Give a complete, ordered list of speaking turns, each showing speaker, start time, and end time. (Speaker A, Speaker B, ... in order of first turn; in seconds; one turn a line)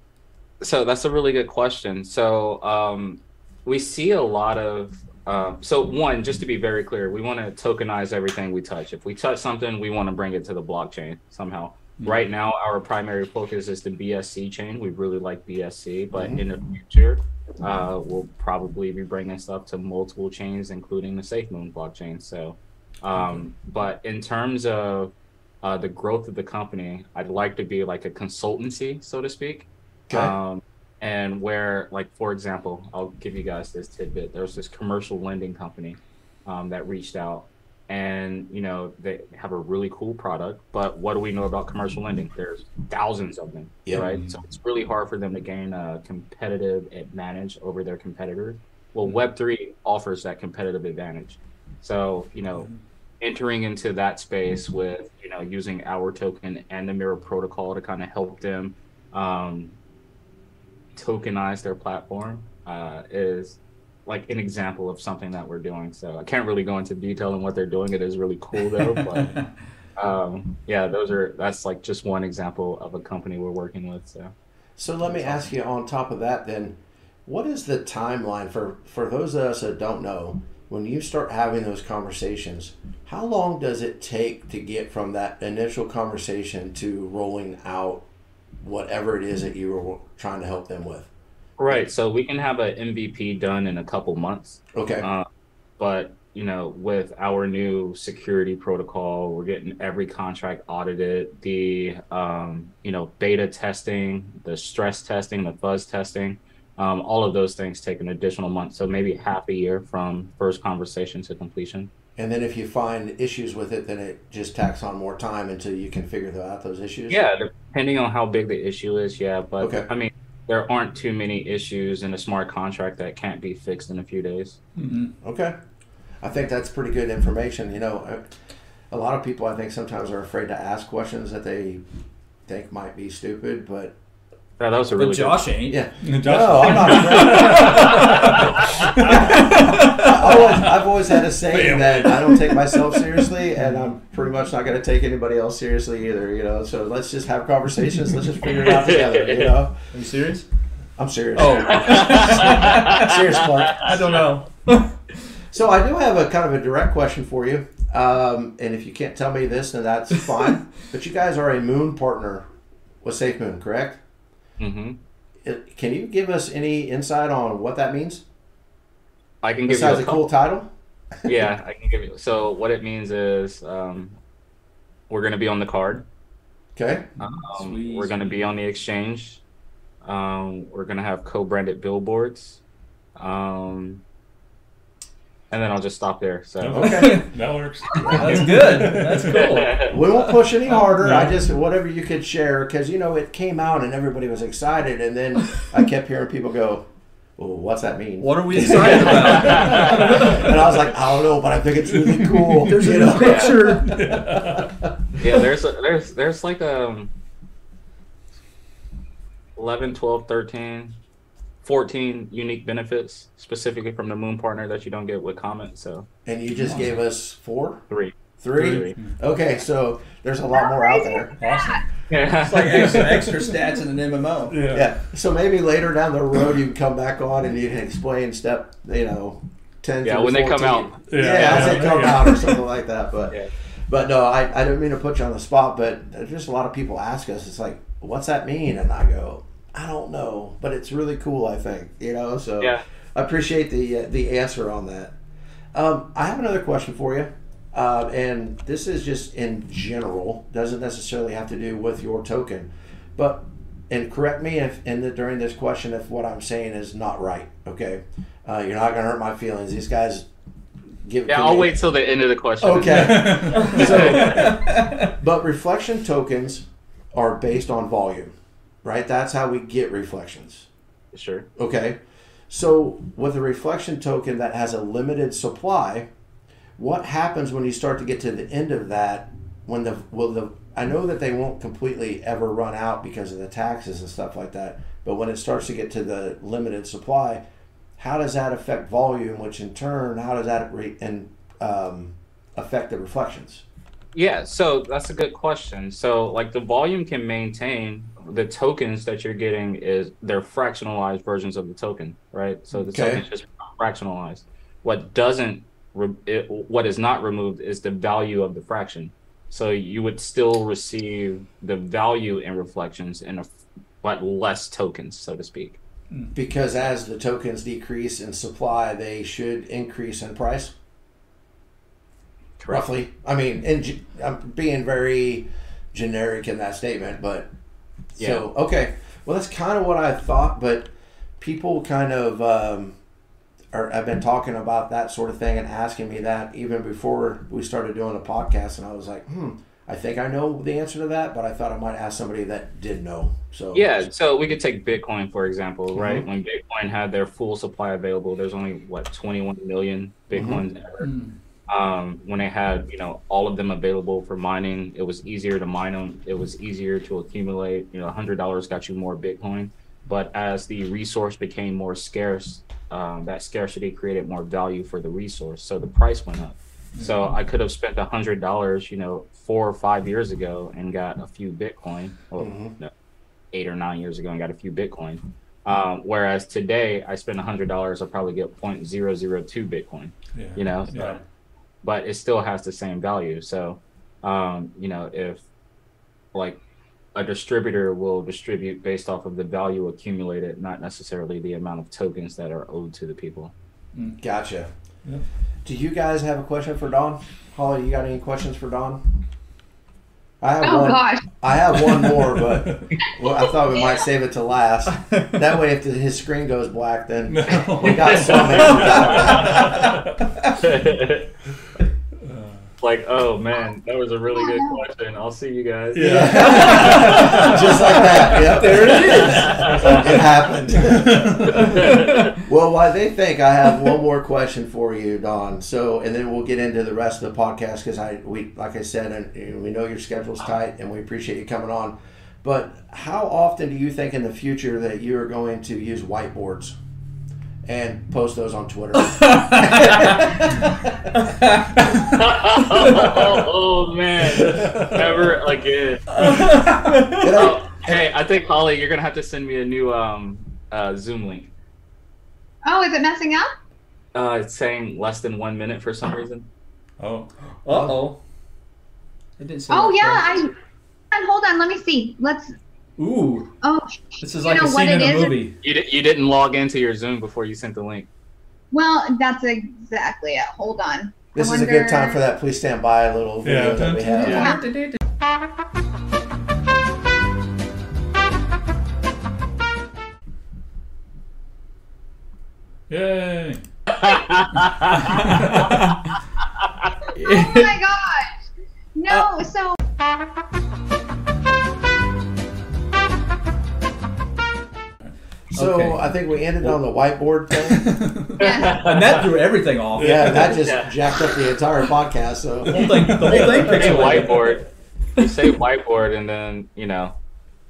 Speaker A: 0.6-52.7
Speaker B: 12.0-12.2
Speaker C: 16.1-16.4
Speaker C: 30.1-30.3
Speaker C: 43.9-44.1
Speaker B: 43.9-44.3
Speaker A: 53.2-59.7
Speaker A: 61.0-69.3
Speaker B: 69.0-69.3
Speaker A: 70.0-74.3
Speaker C: 74.8-88.1
Speaker C: 88.6-91.1
Speaker A: 91.6-95.2
Speaker C: 94.7-95.1
Speaker A: 95.8-111.9
Speaker C: 112.2-117.2
Speaker A: 117.1-124.6
Speaker C: 119.6-119.9
Speaker D: 124.9-125.1
Speaker C: 125.2-125.5
Speaker C: 126.2-128.2
Speaker C: 128.9-131.8
Speaker C: 132.5-133.9
Speaker A: 134.6-135.4
Speaker D: 134.9-135.8
Speaker C: 135.7-138.3
Speaker B: 136.0-140.1
Speaker D: 136.7-138.4
Speaker A: 138.0-139.1
Speaker C: 139.0-149.8
Speaker D: 139.1-140.3
Speaker B: 141.5-143.1
Speaker A: 148.5-149.6
Speaker D: 149.9-150.4
Speaker C: 151.0-154.0
Speaker D: 151.3-153.1
Speaker A: 151.6-153.9
Speaker D: 153.8-155.0
Speaker C: 155.5-162.4
Speaker C: 163.0-164.0
Speaker A: 164.6-165.0
Speaker C: 165.4-168.2
Speaker A: 169.4-170.2
Speaker C: 169.7-170.7
Speaker A: 171.2-174.2
Speaker A: 175.1-176.0
Speaker C: 176.8-177.1
Speaker A: 177.2-179.4
Speaker D: 177.5-178.4
Speaker A: 180.0-182.6
Speaker A: 183.2-184.0
Speaker A: 185.5-187.1
Speaker B: 186.6-189.5
Speaker C: 186.7-187.2
Speaker D: 186.8-187.3
Speaker D: 187.9-190.3
Speaker C: 187.9-188.5
Speaker A: 189.3-189.9
Speaker C: 189.8-196.8
Speaker B: 190.9-191.3
Speaker C: 197.4-204.7
Speaker D: 198.2-200.4
Speaker A: 198.9-200.4
Speaker B: 199.3-200.6
Speaker B: 201.9-203.0
Speaker D: 202.6-204.1
Speaker A: 203.2-203.7
Speaker B: 203.8-204.7
Speaker A: 205.2-207.1
Speaker A: 209.6-211.0
Speaker A: 211.6-216.1
Speaker C: 216.2-217.8
Speaker B: 216.6-216.9
Speaker A: 217.9-218.9
Speaker C: 218.4-221.3
Speaker B: 218.6-219.2
Speaker E: 220.5-221.8
Speaker B: 221.4-221.8
Speaker A: 222.1-223.0
Speaker D: 222.4-224.6
Speaker B: 222.7-223.5
Speaker B: 224.5-224.9
Speaker C: 224.7-233.3
Speaker A: 230.0-231.8
Speaker B: 231.1-232.6
Speaker C: 233.9-245.1
Speaker C: 245.7-260.2
Speaker C: 261.0-261.8
Speaker A: 261.3-264.4
Speaker C: 262.6-268.3
Speaker B: 262.9-263.9
Speaker D: 263.5-265.1
Speaker C: 268.8-270.7
Speaker A: 271.1-271.5
Speaker C: 271.6-272.0
Speaker C: 272.5-276.1
Speaker C: 276.8-287.4
Speaker C: 288.0-293.6
Speaker A: 294.1-315.8
Speaker C: 302.9-303.2
Speaker C: 316.3-320.7
Speaker A: 322.6-322.9
Speaker C: 322.7-327.5
Speaker A: 328.2-328.4
Speaker C: 328.2-332.9
Speaker C: 333.7-344.1
Speaker A: 343.7-351.1
Speaker C: 345.9-346.2
Speaker C: 350.3-350.6
Speaker D: 351.0-351.3
Speaker A: 351.7-372.9
Speaker B: 366.9-367.4
Speaker C: 372.4-372.8
Speaker A: 373.5-381.2
Speaker B: 380.3-381.2
Speaker A: 381.8-385.4
Speaker A: 386.3-386.6
Speaker A: 387.1-393.5
Speaker C: 394.2-394.7
Speaker C: 395.6-399.0
Speaker C: 400.4-409.9
Speaker E: 400.6-401.2
Speaker D: 405.0-405.4
Speaker B: 407.3-410.3
Speaker A: 407.9-409.7
Speaker D: 408.6-409.9
Speaker A: 410.5-411.3
Speaker B: 412.2-412.7
Speaker A: 412.8-416.8
Speaker E: 414.3-414.8
Speaker B: 415.9-418.4
Speaker C: 416.0-436.8
Speaker D: 416.4-420.1
Speaker B: 419.2-421.7
Speaker A: 419.4-420.1
Speaker D: 421.5-422.3
Speaker A: 421.7-422.3
Speaker C: 437.6-441.1
Speaker D: 439.0-440.5
Speaker D: 441.2-441.7
Speaker A: 441.9-446.4
Speaker B: 444.4-445.3
Speaker D: 446.1-447.3
Speaker B: 446.2-446.5
Speaker C: 447.1-447.6
Speaker A: 447.3-451.5
Speaker E: 452.6-453.5
Speaker A: 454.1-456.5
Speaker B: 457.0-457.3
Speaker D: 457.6-458.2
Speaker C: 457.7-458.0
Speaker D: 459.4-460.4
Speaker E: 459.7-460.5
Speaker E: 461.1-462.6
Speaker D: 463.0-463.5
Speaker E: 463.6-465.4
Speaker D: 464.2-465.6
Speaker A: 465.6-468.1
Speaker E: 468.7-472.2
Speaker C: 471.3-474.5
Speaker B: 473.4-474.4
Speaker D: 474.0-475.0
Speaker E: 474.2-474.6
Speaker B: 482.9-483.6
Speaker A: 483.9-485.8
Speaker B: 485.0-485.8
Speaker D: 485.6-485.9
Speaker A: 486.6-486.9
Speaker D: 487.1-487.8
Speaker E: 487.2-488.3
Speaker E: 488.9-489.8
Speaker C: 495.5-497.9
Speaker D: 495.5-496.1
Speaker B: 497.8-498.4
Speaker A: 498.4-499.2
Speaker E: 498.4-498.9
Speaker D: 498.7-500.6
Speaker B: 500.0-500.6
Speaker C: 500.0-503.2
Speaker A: 500.5-501.2
Speaker D: 502.7-504.6
Speaker B: 502.7-504.1
Speaker A: 503.3-507.1